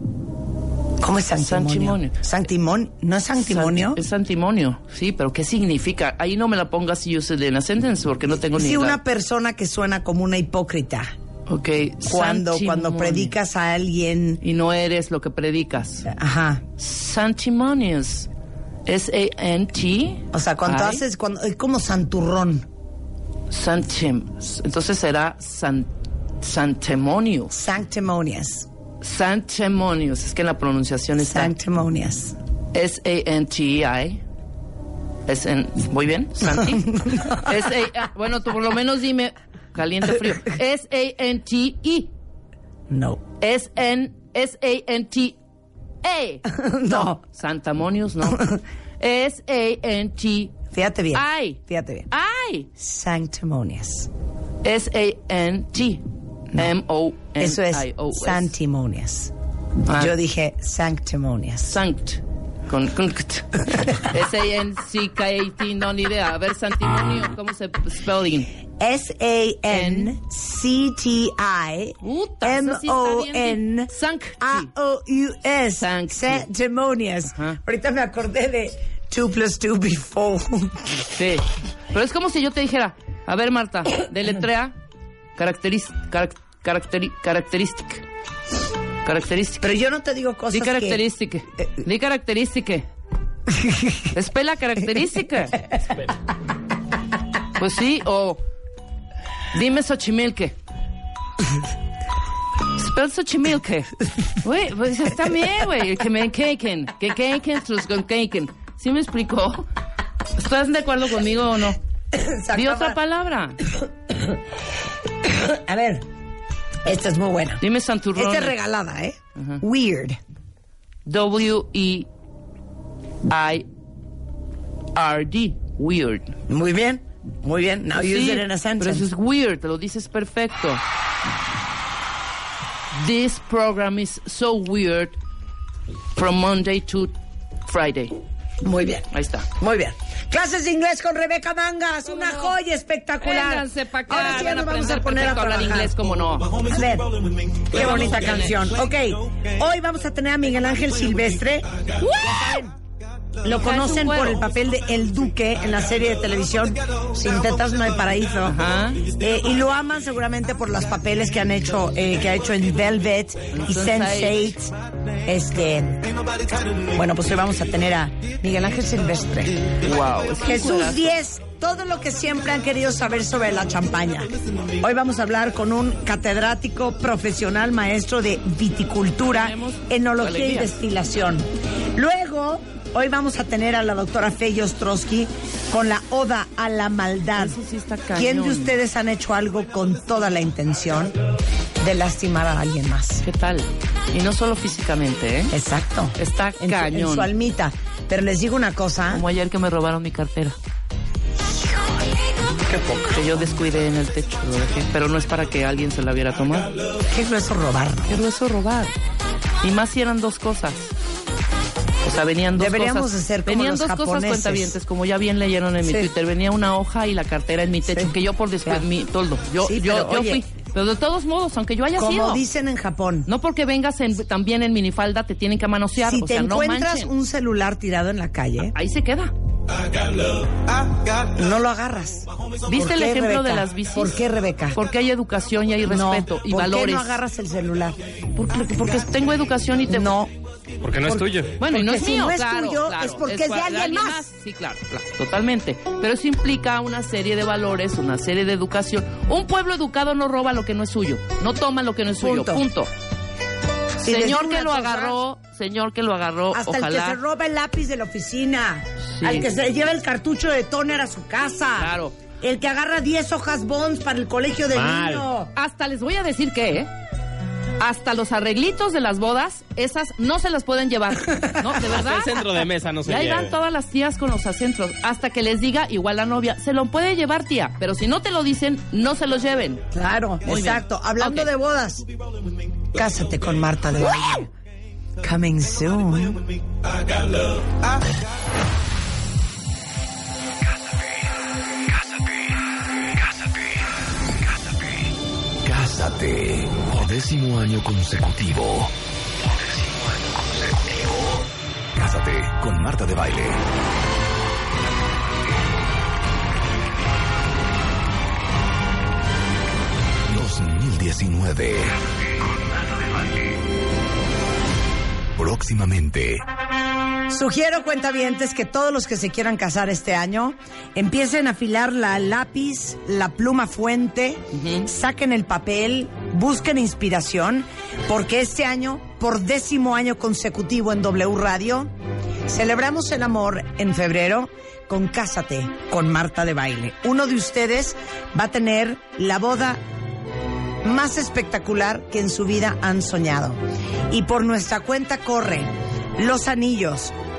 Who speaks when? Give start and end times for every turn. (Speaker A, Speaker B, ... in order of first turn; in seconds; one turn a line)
Speaker A: 1.0-4.0
Speaker B: 1.4-2.1
Speaker B: 3.4-9.0
Speaker A: 8.3-11.1
Speaker B: 11.5-13.3
Speaker A: 12.0-14.4
Speaker B: 14.4-16.1
Speaker A: 16.1-16.6
Speaker B: 16.8-18.3
Speaker B: 18.9-21.0
Speaker A: 20.3-22.7
Speaker B: 23.5-25.9
Speaker B: 26.4-27.6
Speaker A: 27.5-28.7
Speaker B: 29.0-31.5
Speaker A: 31.2-32.4
Speaker B: 32.7-34.2
Speaker B: 35.3-42.1
Speaker A: 36.7-37.4
Speaker A: 42.9-43.2
Speaker B: 43.4-45.4
Speaker B: 46.0-50.5
Speaker A: 46.5-47.2
Speaker A: 50.7-52.1
Speaker B: 51.1-52.7
Speaker A: 52.8-54.1
Speaker B: 54.6-58.5
Speaker A: 57.4-59.3
Speaker B: 59.9-60.2
Speaker A: 59.9-61.8
Speaker B: 61.7-68.5
Speaker A: 68.8-81.1
Speaker B: 69.7-70.2
Speaker B: 72.0-74.7
Speaker B: 75.8-76.5
Speaker B: 77.3-77.6
Speaker B: 81.1-84.8
Speaker B: 85.4-88.0
Speaker B: 89.0-89.7
Speaker A: 89.6-91.0
Speaker B: 90.5-92.9
Speaker A: 93.5-94.0
Speaker B: 94.1-95.6
Speaker B: 97.6-98.4
Speaker B: 99.5-100.6
Speaker B: 102.7-109.7
Speaker B: 110.3-111.8
Speaker A: 112.1-113.0
Speaker B: 112.5-113.7
Speaker A: 114.1-114.4
Speaker A: 115.2-116.1
Speaker A: 116.8-117.6
Speaker B: 117.6-118.6
Speaker A: 118.2-120.2
Speaker B: 121.1-122.1
Speaker B: 123.3-123.7
Speaker B: 125.0-126.3
Speaker A: 126.5-129.1
Speaker B: 127.9-130.8
Speaker B: 132.9-135.2
Speaker B: 136.2-137.1
Speaker B: 137.7-138.2
Speaker A: 138.6-152.8
Speaker B: 139.1-139.5
Speaker B: 143.2-146.6
Speaker B: 147.7-148.5
Speaker B: 152.0-152.6
Speaker A: 153.4-166.1
Speaker B: 153.5-154.4
Speaker B: 158.4-159.1
Speaker B: 163.5-164.6
Speaker A: 166.7-169.8
Speaker B: 169.8-171.2
Speaker A: 170.3-187.6
Speaker B: 179.2-180.8
Speaker B: 187.4-188.8
Speaker A: 188.1-191.2
Speaker A: 191.8-193.2
Speaker B: 193.2-195.5
Speaker A: 195.5-199.2
Speaker B: 196.2-197.3
Speaker B: 199.1-200.6
Speaker B: 203.0-206.7
Speaker A: 207.1-208.2
Speaker B: 208.1-208.9
Speaker B: 209.6-210.9
Speaker B: 212.0-222.4
Speaker A: 212.6-214.8
Speaker A: 215.8-216.1
Speaker A: 217.9-218.1
Speaker A: 219.6-220.4
Speaker A: 222.0-223.3
Speaker B: 223.3-227.1
Speaker A: 226.0-228.8
Speaker B: 228.7-229.3
Speaker A: 231.3-234.8
Speaker B: 232.7-234.2
Speaker B: 234.7-237.2
Speaker A: 235.8-238.0
Speaker B: 238.3-240.2
Speaker A: 239.9-240.3
Speaker C: 240.8-241.5
Speaker A: 241.0-244.3
Speaker B: 241.6-252.9
Speaker A: 252.2-252.7
Speaker A: 254.0-255.2
Speaker B: 254.0-257.2
Speaker A: 256.5-265.5
Speaker B: 259.1-259.5
Speaker B: 261.8-262.2
Speaker C: 264.7-265.2
Speaker B: 265.5-266.9
Speaker B: 267.8-272.4
Speaker C: 271.9-273.5
Speaker B: 273.1-279.9
Speaker A: 279.9-282.1
Speaker B: 280.4-281.5
Speaker A: 282.9-284.5
Speaker A: 285.2-286.5
Speaker D: 291.9-295.1
Speaker D: 295.6-303.6
Speaker D: 310.3-313.6
Speaker D: 315.4-316.4
Speaker A: 317.3-331.9
Speaker B: 324.5-324.9
Speaker A: 332.5-339.8
Speaker A: 340.8-343.6
Speaker A: 344.1-347.1